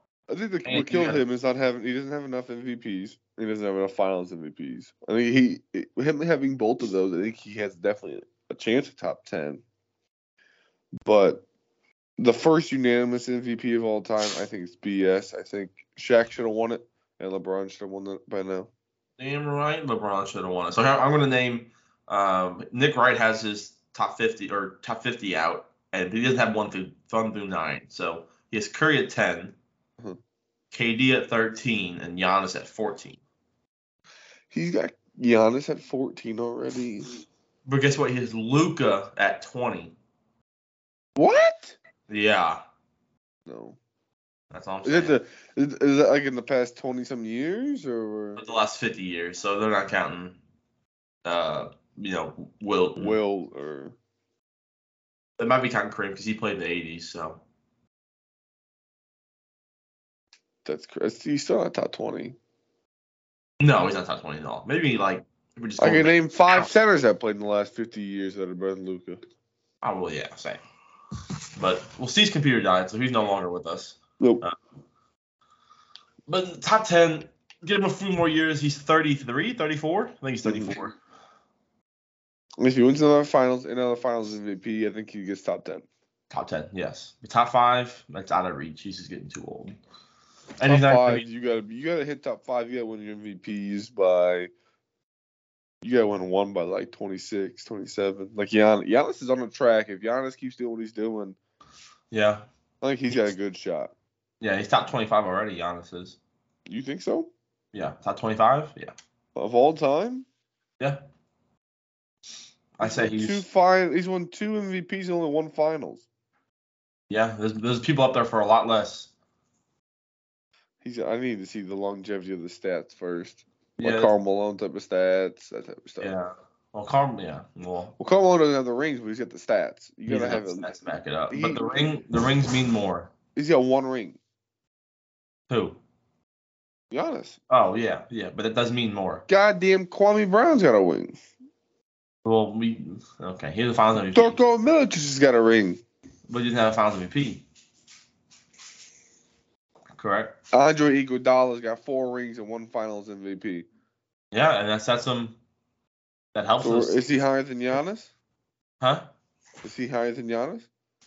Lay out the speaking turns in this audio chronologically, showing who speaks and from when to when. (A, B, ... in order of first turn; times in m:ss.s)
0:00.3-0:09.6 A
0:00.6-0:01.2 B
0:11.0-0:11.4 A
0:12.2-0:18.7 A
0:19.2-0:29.5 B
0:30.7-0:33.2 B
0:34.5-0:37.2 A
0:37.6-0:40.0 B
0:41.2-0:41.8 A
0:42.1-0:42.6 B
0:43.5-0:43.8 A
0:44.5-0:45.2 B
0:44.8-0:48.4 A
0:48.4-0:50.4 B
0:51.2-0:53.2 B
0:53.0-0:53.9 A
0:55.4-0:57.4 B
1:00.6-1:02.4 A
1:03.6-1:06.7 B
1:05.8-1:09.2 A
1:09.8-1:10.6 B
1:11.6-1:14.5 B
1:16.3-1:21.0 B
1:20.4-1:20.8 A
1:22.6-1:25.8 A
1:26.3-1:29.8 B
1:30.6-1:31.2 B
1:30.6-1:34.5 A
1:35.8-1:41.4 A
1:42.1-1:42.5 B
1:42.8-1:43.9 A
1:44.4-1:46.2 B
1:46.7-1:47.3 A
1:47.7-1:48.9 B
1:49.4-1:50.2 A
1:52.8-1:53.4 B
1:52.8-1:56.1 A
1:57.1-1:59.1 B
2:00.8-2:06.1 A
2:03.8-2:04.1 B
2:06.0-2:07.9 B
2:08.0-2:10.7 A
2:10.1-2:13.1 B
2:11.3-2:11.9 A
2:13.4-2:14.2 A
2:15.5-2:15.8 B
2:16.9-2:17.4 A
2:17.5-2:19.2 B
2:19.3-2:21.1 A
2:22.2-2:24.4 B
2:24.1-2:25.8 A
2:26.3-2:27.4 B
2:29.9-2:30.3 B
2:30.5-2:33.7 A
2:34.3-2:35.4 B
2:36.3-2:37.0 B
2:36.6-2:38.1 A
2:38.8-2:39.1 B
2:39.6-2:40.7 A